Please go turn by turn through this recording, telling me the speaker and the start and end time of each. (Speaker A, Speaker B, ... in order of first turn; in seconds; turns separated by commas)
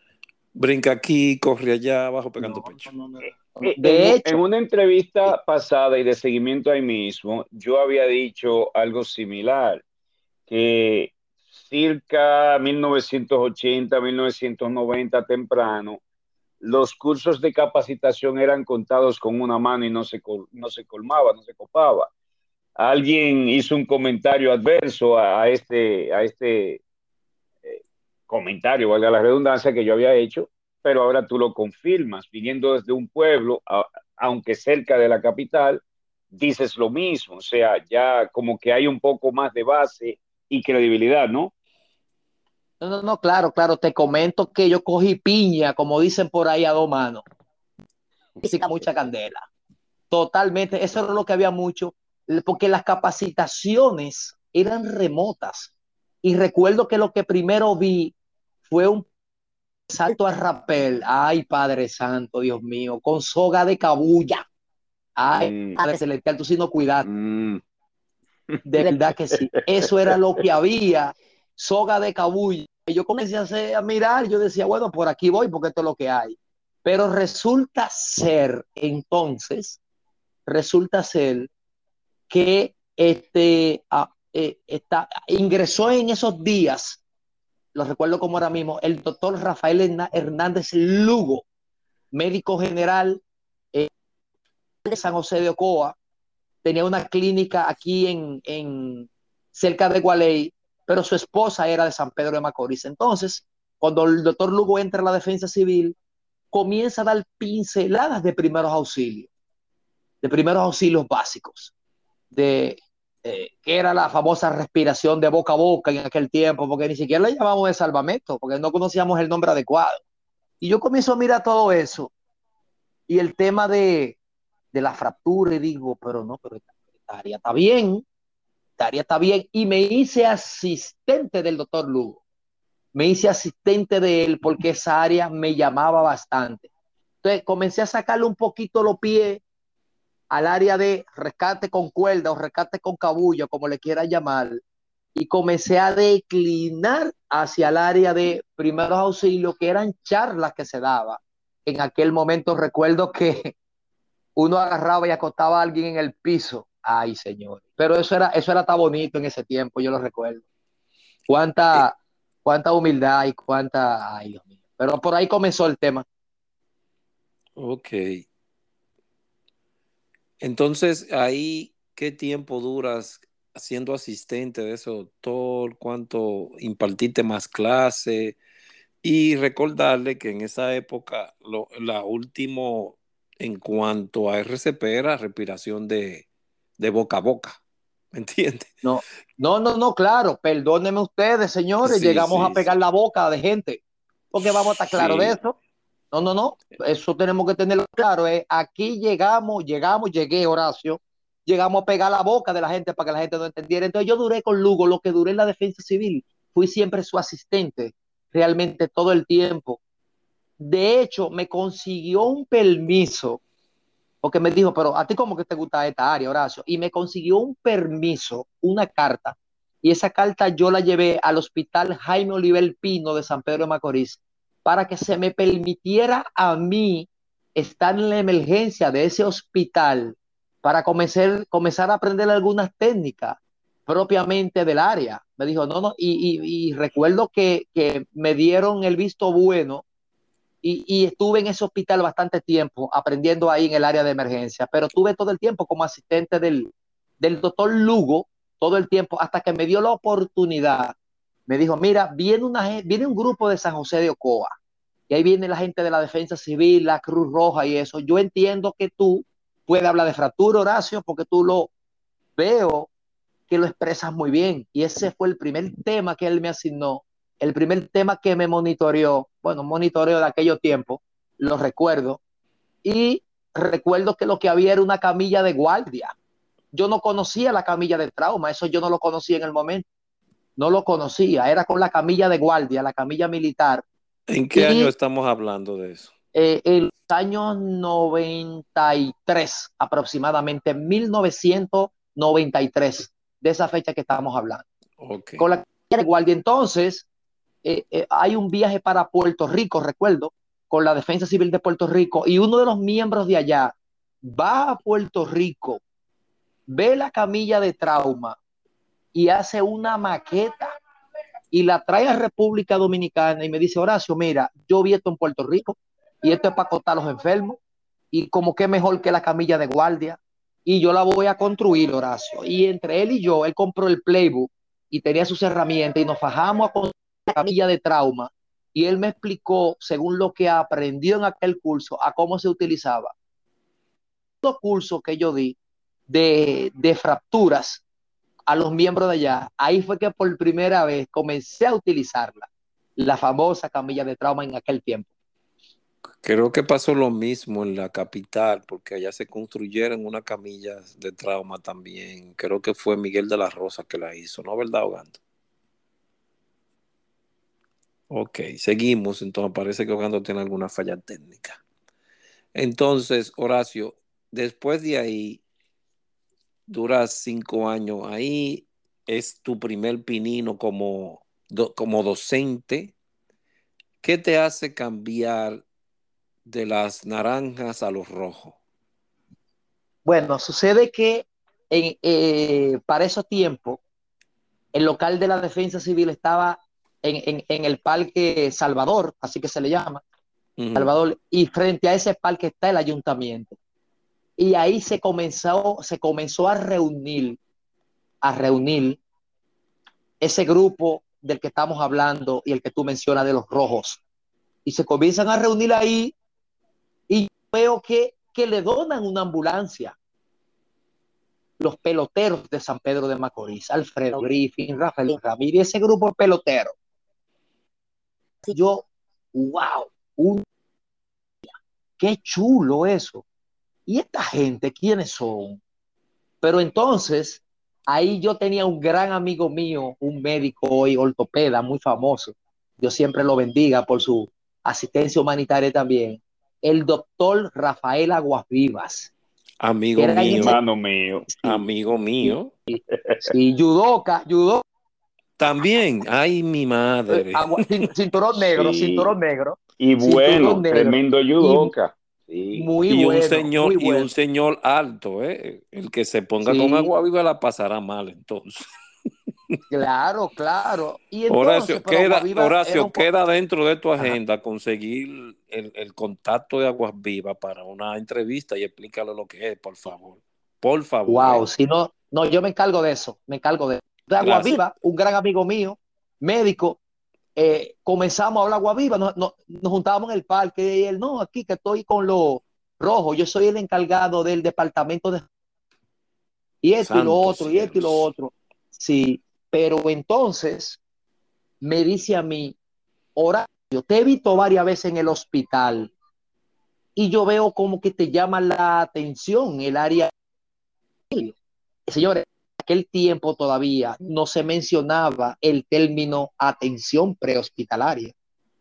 Speaker A: 0.6-2.9, Speaker B: 2.5-4.4, Speaker C: 3.6-9.8, Speaker C: 10.5-16.0, Speaker C: 16.6-22.1, Speaker C: 22.8-26.8, Speaker C: 27.6-41.5, Speaker B: 42.8-47.2, Speaker B: 48.4-49.5, Speaker B: 50.1-55.7, Speaker B: 56.2-58.1, Speaker B: 58.7-59.1, Speaker B: 59.9-64.5, Speaker B: 65.2-67.1, Speaker C: 65.4-65.8, Speaker C: 67.0-67.6, Speaker B: 68.7-79.8, Speaker C: 68.8-69.3, Speaker B: 80.5-81.5, Speaker B: 82.3-87.0, Speaker B: 87.7-91.5, Speaker B: 92.1-93.2, Speaker B: 94.8-96.0, Speaker B: 96.6-106.0, Speaker B: 106.5-109.3, Speaker B: 110.2-111.7, Speaker B: 112.3-120.0, Speaker B: 120.6-122.1, Speaker B: 123.1-124.2, Speaker B: 124.7-128.1, Speaker B: 128.8-132.2, Speaker B: 132.9-136.7, Speaker B: 137.2-139.4, Speaker B: 140.3-144.6, Speaker B: 145.2-153.5, Speaker B: 154.4-160.4, Speaker B: 161.3-166.1, Speaker A: 167.6-168.2, Speaker A: 170.4-178.4, Speaker A: 179.0-186.3, Speaker A: 186.8-187.6, Speaker A: 188.1-188.8, Speaker B: 188.8-193.8, Speaker A: 191.8-192.7, Speaker B: 194.3-195.6, Speaker A: 194.4-195.4, Speaker B: 196.1-209.8, Speaker B: 210.6-213.4, Speaker B: 214.2-239.8, Speaker B: 240.6-250.9, Speaker B: 251.5-254.6, Speaker B: 255.1-261.7, Speaker B: 262.4-262.9, Speaker B: 263.5-272.2, Speaker B: 272.8-276.1, Speaker B: 276.7-279.9, Speaker B: 280.6-283.9, Speaker A: 284.3-286.1, Speaker B: 284.5-284.9, Speaker B: 286.3-294.6, Speaker A: 295.0-295.5, Speaker B: 295.4-297.1, Speaker B: 297.6-305.8, Speaker B: 306.7-308.4, Speaker B: 309.1-310.7, Speaker B: 311.5-317.6, Speaker B: 318.1-333.1, Speaker B: 334.4-335.6, Speaker B: 336.1-337.8, Speaker B: 338.5-345.1, Speaker A: 346.2-355.2, Speaker A: 358.1-361.6, Speaker A: 362.6-365.4, Speaker A: 366.7-372.9, Speaker A: 374.0-375.6, Speaker A: 376.5-378.6, Speaker B: 380.1-383.8, Speaker B: 384.7-390.0, Speaker A: 390.6-390.9, Speaker B: 390.8-393.6, Speaker B: 394.4-397.4, Speaker B: 398.2-399.0, Speaker B: 400.2-404.0, Speaker B: 404.6-406.1, Speaker B: 407.1-409.9, Speaker B: 411.6-416.8, Speaker B: 418.5-420.4, Speaker B: 422.0-423.2, Speaker B: 423.9-425.6, Speaker B: 426.4-439.1, Speaker A: 439.6-440.6, Speaker B: 440.0-440.6, Speaker C: 440.2-441.4, Speaker A: 441.4-442.5, Speaker B: 442.2-444.6, Speaker C: 442.9-443.3, Speaker A: 445.4-447.7, Speaker B: 447.1-451.7, Speaker C: 448.6-449.1, Speaker C: 449.8-452.7, Speaker B: 452.6-454.1, Speaker A: 452.9-458.6, Speaker B: 456.4-456.9, Speaker B: 459.7-463.1, Speaker A: 461.3-471.4, Speaker B: 471.1-476.8, Speaker A: 474.2-474.6, Speaker B: 477.4-485.3, Speaker B: 486.6-490.8, Speaker A: 486.8-488.1, Speaker B: 491.6-492.6, Speaker B: 493.2-495.9, Speaker B: 497.0-500.1, Speaker B: 501.1-501.4, Speaker B: 501.9-508.1